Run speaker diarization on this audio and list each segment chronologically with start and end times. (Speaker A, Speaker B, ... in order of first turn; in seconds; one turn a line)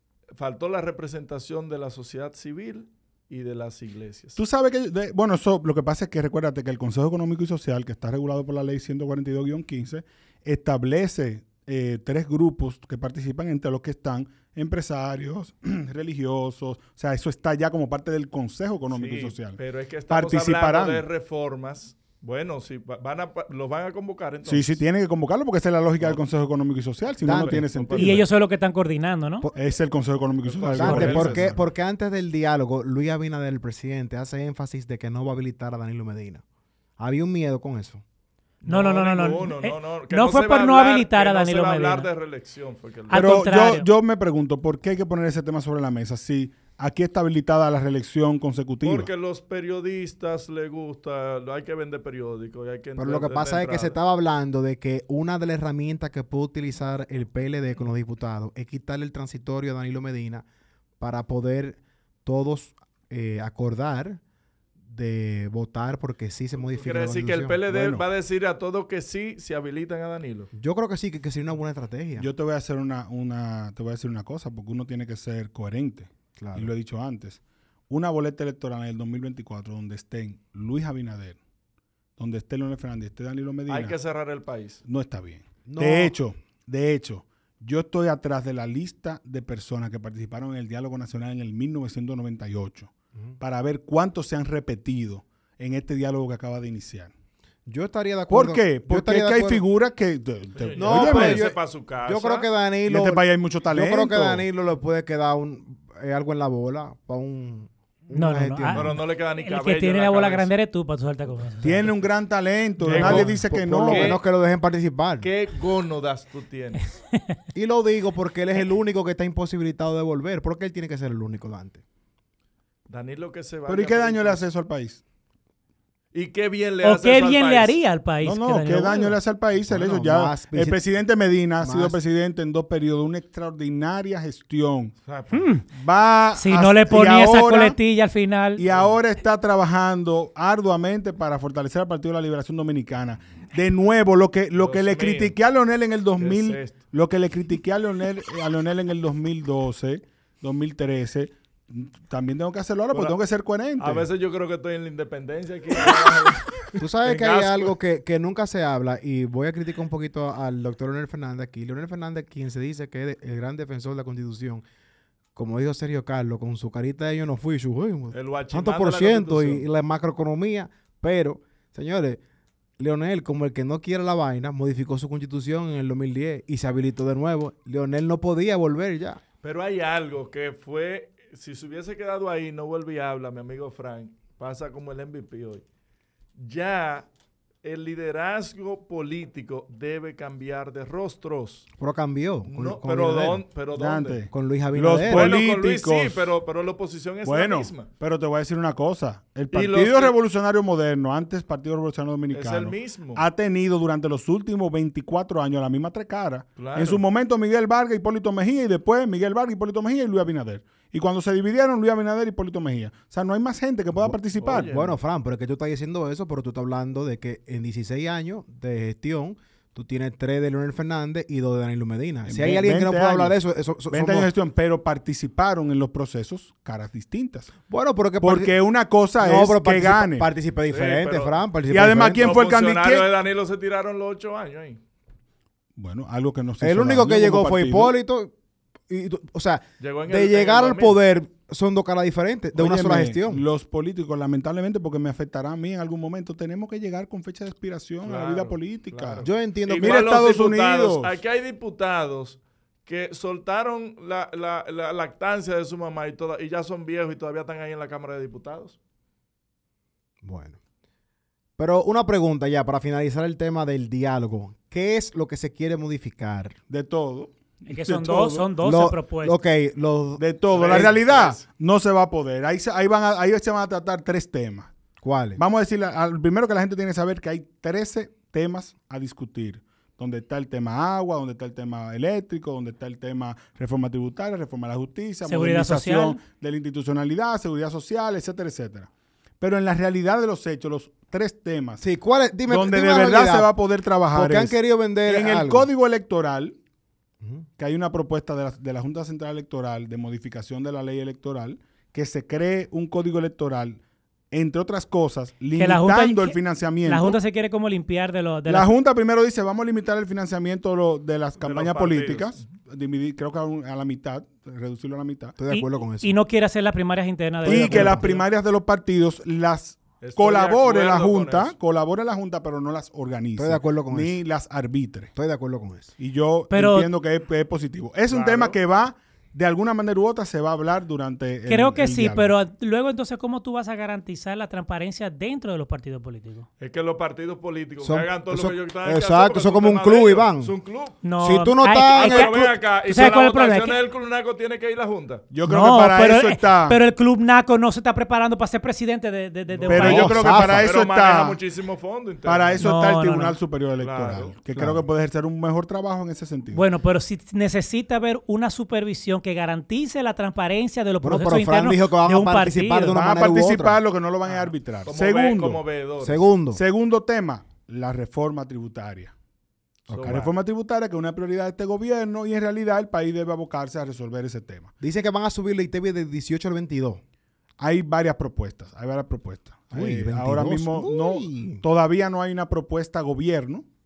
Speaker A: 0.3-4.4
Speaker B: 4.4-19.6
Speaker A: 18.9-24.8
Speaker B: 20.1-21.0
Speaker B: 24.4-28.2
Speaker C: 27.2-28.0
Speaker A: 27.4-28.2
Speaker D: 27.9-29.5
Speaker B: 29.5-31.6
Speaker A: 30.4-31.6
Speaker C: 30.7-36.4
Speaker C: 37.0-38.0
Speaker A: 38.6-43.2
Speaker D: 38.7-42.1
Speaker D: 43.1-43.9
Speaker B: 43.1-49.1
Speaker A: 48.8-54.0
Speaker C: 53.0-60.4
Speaker C: 61.0-64.2
Speaker C: 64.8-67.6
Speaker A: 66.6-70.5
Speaker B: 67.7-68.0
Speaker C: 70.5-72.3
Speaker B: 72.2-81.4
Speaker C: 76.3-76.7
Speaker B: 82.2-84.0
Speaker A: 83.7-84.8
Speaker B: 84.8-97.1
Speaker C: 85.7-86.2
Speaker C: 97.7-99.6
Speaker B: 98.3-101.5
Speaker A: 100.5-102.5
Speaker C: 100.7-109.0
Speaker B: 102.9-104.5
Speaker D: 108.1-111.9
Speaker A: 108.7-110.5
Speaker B: 111.6-114.2
Speaker A: 112.8-114.2
Speaker C: 112.9-115.3
Speaker A: 115.2-116.9
Speaker C: 117.5-121.8
Speaker A: 122.9-124.4
Speaker B: 123.7-125.0
Speaker A: 126.1-127.8
Speaker D: 126.8-129.2
Speaker B: 128.2-134.9
Speaker C: 129.7-130.8
Speaker C: 131.6-132.0
Speaker A: 135.0-135.4
Speaker D: 135.3-135.6
Speaker B: 135.7-137.8
Speaker D: 136.3-138.6
Speaker B: 138.6-154.1
Speaker A: 144.6-145.3
Speaker A: 146.2-146.8
Speaker A: 152.9-153.2
Speaker A: 153.8-157.7
Speaker C: 156.8-164.6
Speaker C: 165.3-172.2
Speaker A: 168.1-169.7
Speaker C: 172.8-179.2
Speaker A: 179.4-185.6
Speaker A: 186.4-187.1
Speaker A: 187.6-191.7
Speaker C: 191.8-193.4
Speaker A: 192.4-194.2
Speaker B: 193.7-196.2
Speaker C: 194.3-195.4
Speaker A: 195.0-197.9
Speaker B: 197.2-214.7
Speaker A: 199.5-200.1
Speaker A: 202.3-203.2
Speaker A: 206.6-207.0
Speaker C: 213.9-224.3
Speaker A: 214.4-215.0
Speaker B: 222.2-223.3
Speaker B: 223.9-227.5
Speaker C: 227.7-228.6
Speaker B: 228.2-230.3
Speaker C: 229.2-232.4
Speaker A: 230.7-231.4
Speaker B: 231.7-233.1
Speaker A: 232.2-234.8
Speaker B: 235.8-238.0
Speaker C: 236.6-238.3
Speaker C: 238.9-243.4
Speaker A: 239.8-241.0
Speaker B: 242.6-249.2
Speaker A: 248.0-258.8
Speaker C: 249.2-250.2
Speaker B: 249.8-251.1
Speaker C: 260.2-260.6
Speaker C: 261.6-266.6
Speaker B: 266.7-268.5
Speaker D: 267.7-269.4
Speaker C: 268.6-271.1
Speaker B: 270.2-274.7
Speaker A: 270.5-271.4
Speaker C: 275.0-275.4
Speaker B: 275.4-291.8
Speaker D: 285.2-286.2
Speaker C: 291.8-293.5
Speaker B: 292.5-296.6
Speaker C: 294.1-295.7
Speaker C: 297.2-297.5
Speaker B: 297.6-307.2
Speaker D: 305.6-308.7
Speaker B: 308.5-315.4
Speaker A: 311.4-312.5
Speaker C: 315.4-316.1
Speaker D: 315.5-318.2
Speaker C: 317.4-318.1
Speaker B: 317.4-325.1
Speaker A: 320.0-321.5
Speaker C: 323.4-324.2
Speaker C: 325.1-325.9
Speaker B: 326.0-332.3
Speaker D: 326.5-326.9
Speaker A: 328.1-328.6
Speaker D: 331.5-336.5
Speaker A: 336.6-341.0
Speaker C: 337.8-340.6
Speaker D: 341.0-343.8
Speaker C: 341.2-342.6
Speaker A: 341.9-345.2
Speaker B: 345.3-346.8
Speaker D: 345.4-350.2
Speaker A: 349.5-352.6
Speaker B: 349.7-351.4
Speaker C: 349.7-350.7
Speaker B: 352.2-356.6
Speaker D: 352.6-353.4
Speaker A: 353.8-354.3
Speaker C: 354.5-354.8
Speaker D: 356.5-362.9
Speaker C: 361.0-363.8
Speaker B: 362.9-365.6
Speaker A: 364.2-366.3
Speaker C: 366.0-366.6
Speaker B: 366.5-369.1
Speaker A: 369.9-370.3
Speaker C: 369.9-370.3
Speaker B: 370.0-374.7
Speaker C: 374.8-377.0
Speaker B: 377.6-383.6
Speaker C: 379.7-381.6